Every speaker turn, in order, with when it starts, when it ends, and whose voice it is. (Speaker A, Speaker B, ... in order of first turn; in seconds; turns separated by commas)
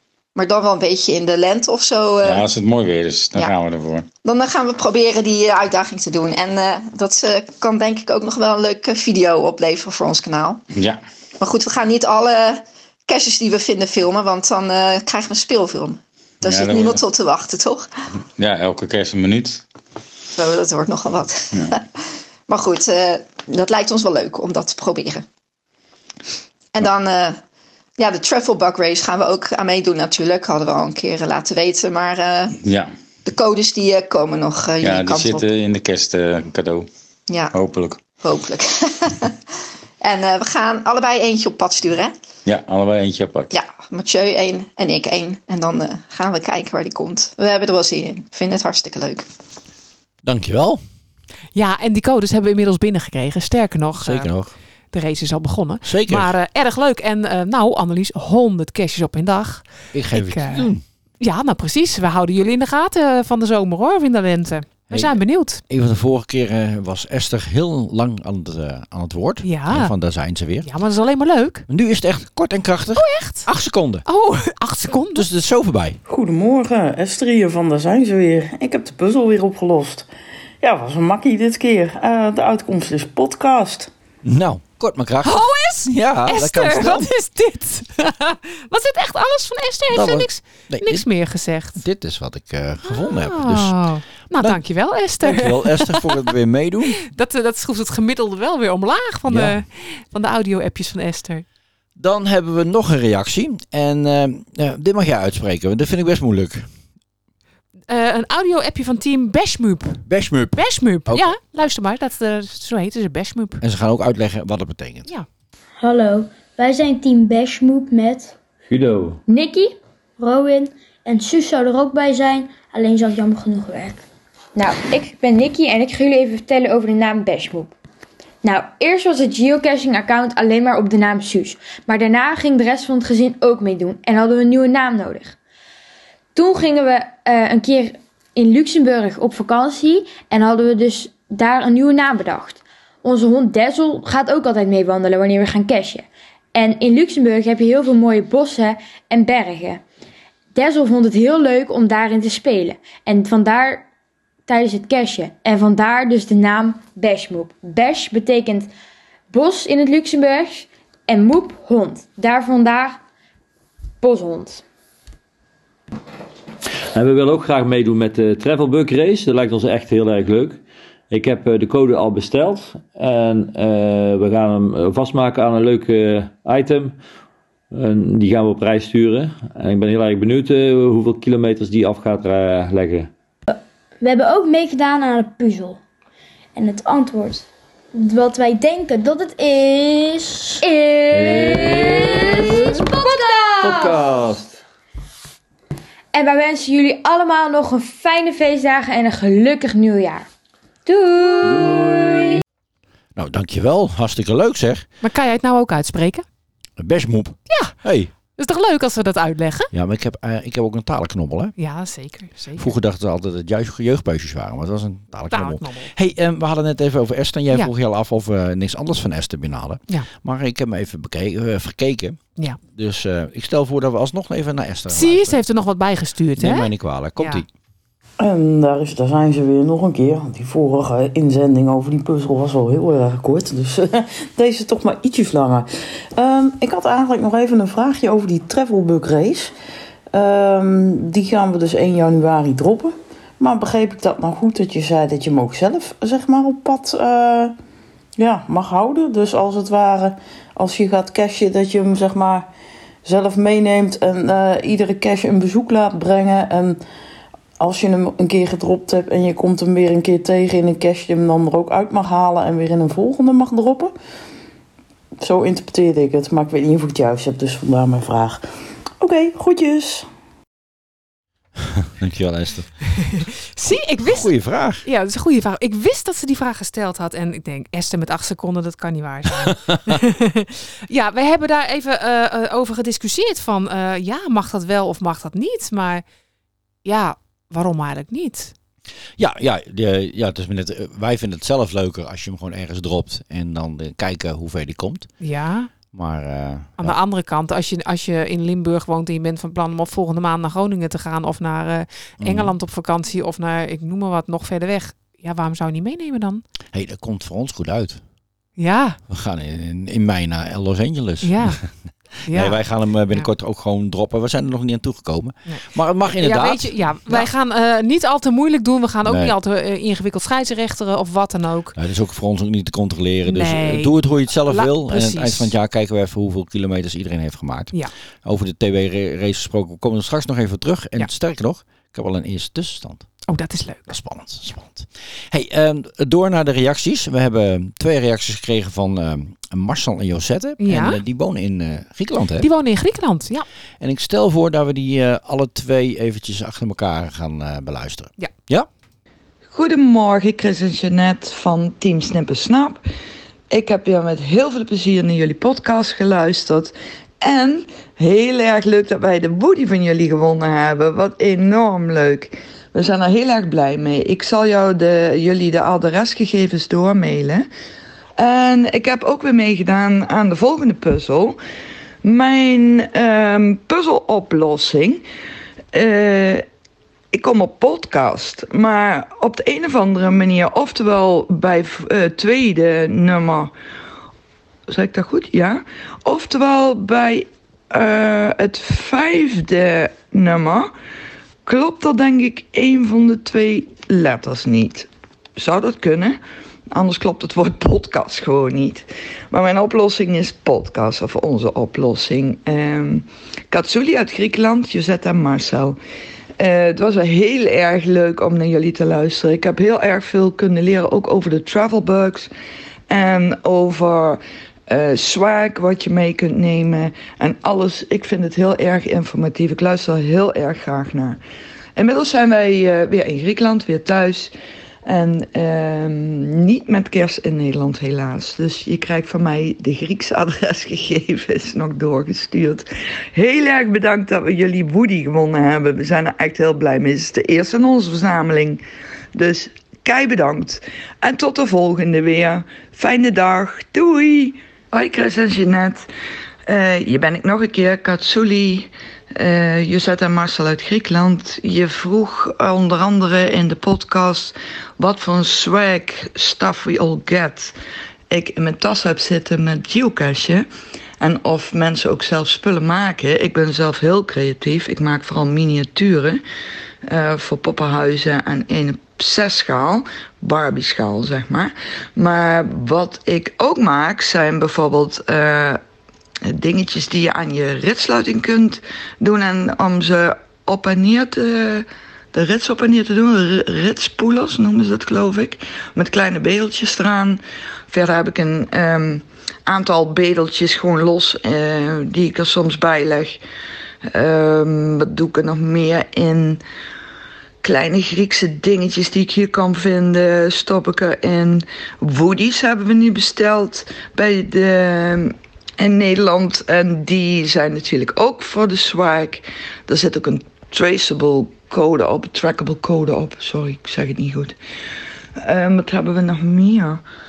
Speaker A: 0.4-2.5, Speaker B: 2.2-4.1, Speaker A: 4.2-10.6, Speaker A: 11.4-17.9, Speaker B: 16.4-17.0, Speaker B: 18.4-19.6, Speaker A: 20.3-21.8, Speaker A: 22.5-25.2, Speaker A: 26.8-27.4, Speaker A: 28.0-32.6, Speaker B: 32.6-32.9, Speaker A: 33.2-35.5, Speaker B: 34.8-36.9, Speaker A: 37.3-37.5, Speaker B: 37.5-38.0, Speaker A: 38.2-39.3, Speaker A: 40.0-42.1, Speaker B: 42.5-43.5, Speaker A: 43.5-49.2, Speaker C: 50.2-50.8, Speaker D: 51.5-54.3, Speaker C: 54.0-54.5, Speaker D: 54.9-65.6, Speaker C: 55.8-56.3, Speaker C: 59.9-60.8, Speaker C: 64.9-70.7, Speaker D: 69.4-69.9, Speaker D: 70.6-71.7, Speaker C: 71.7-74.0, Speaker D: 73.0-73.5, Speaker D: 74.1-75.2, Speaker C: 75.2-76.0, Speaker E: 76.1-80.1, Speaker E: 80.6-83.9, Speaker C: 84.2-87.1, Speaker D: 85.2-91.8, Speaker C: 89.9-91.1, Speaker C: 91.8-93.8, Speaker D: 92.9-96.3, Speaker C: 95.2-97.0, Speaker D: 97.0-101.5, Speaker C: 99.3-99.6, Speaker C: 102.0-106.7, Speaker D: 107.9-110.0, Speaker C: 110.1-111.3, Speaker D: 110.6-113.6, Speaker C: 113.6-115.1, Speaker F: 115.8-118.3, Speaker G: 118.7-119.2, Speaker H: 119.3-119.7, Speaker F: 120.2-124.0, Speaker H: 124.6-127.7, Speaker H: 128.4-135.4, Speaker H: 136.3-149.8, Speaker H: 150.6-153.9, Speaker H: 154.5-158.7, Speaker H: 159.3-163.0, Speaker H: 164.0-164.6, Speaker G: 166.9-177.0, Speaker G: 177.7-183.1, Speaker F: 183.5-185.8, Speaker F: 186.6-193.9, Speaker G: 191.1-192.9, Speaker G: 193.6-194.5, Speaker H: 196.1-200.3, Speaker H: 200.9-201.9, Speaker G: 201.4-202.2, Speaker C: 203.2-204.9, Speaker D: 205.0-206.2, Speaker C: 206.8-208.1, Speaker D: 207.5-207.8, Speaker D: 208.4-209.7, Speaker C: 209.7-211.5, Speaker D: 211.6-212.8, Speaker C: 212.6-225.4, Speaker D: 215.3-215.9, Speaker D: 224.9-227.4, Speaker C: 226.4-227.5, Speaker E: 228.2-239.5, Speaker E: 240.1-247.6, Speaker E: 248.2-252.5, Speaker E: 253.1-256.8, Speaker E: 257.6-263.9, Speaker E: 265.2-268.4, Speaker E: 269.0-270.1, Speaker C: 271.6-272.8, Speaker D: 273.5-274.3, Speaker C: 273.6-274.8, Speaker D: 274.9-286.0, Speaker D: 286.9-288.5, Speaker C: 289.2-295.1, Speaker D: 295.2-295.7, Speaker C: 295.9-297.0, Speaker D: 296.8-306.4, Speaker C: 302.2-302.5, Speaker C: 306.7-308.0, Speaker D: 308.6-309.0, Speaker C: 309.1-311.7, Speaker D: 311.2-311.6, Speaker D: 312.2-312.6, Speaker C: 312.2-317.3, Speaker D: 316.2-321.8, Speaker C: 319.1-319.3, Speaker C: 321.8-327.7, Speaker D: 323.2-325.5, Speaker C: 328.2-333.1, Speaker D: 333.3-333.9, Speaker C: 333.9-342.5, Speaker D: 340.6-341.0, Speaker D: 342.4-343.5, Speaker C: 343.8-348.7, Speaker I: 349.5-352.8, Speaker I: 353.5-367.5, Speaker I: 368.2-371.4, Speaker I: 372.0-375.0, Speaker I: 375.7-376.4, Speaker I: 377.1-383.5, Speaker I: 384.7-390.7, Speaker I: 391.5-396.2, Speaker I: 396.7-405.8, Speaker I: 406.4-412.3, Speaker I: 412.9-421.2, Speaker I: 421.8-424.3, Speaker I: 424.9-438.6, Speaker I: 439.1-445.9, Speaker I: 446.5-457.5, Speaker I: 458.1-460.5, Speaker I: 461.0-466.2, Speaker I: 466.9-475.6, Speaker I: 476.2-487.2, Speaker I: 487.7-493.2, Speaker I: 493.9-496.4, Speaker I: 497.4-514.4, Speaker I: 515.2-516.8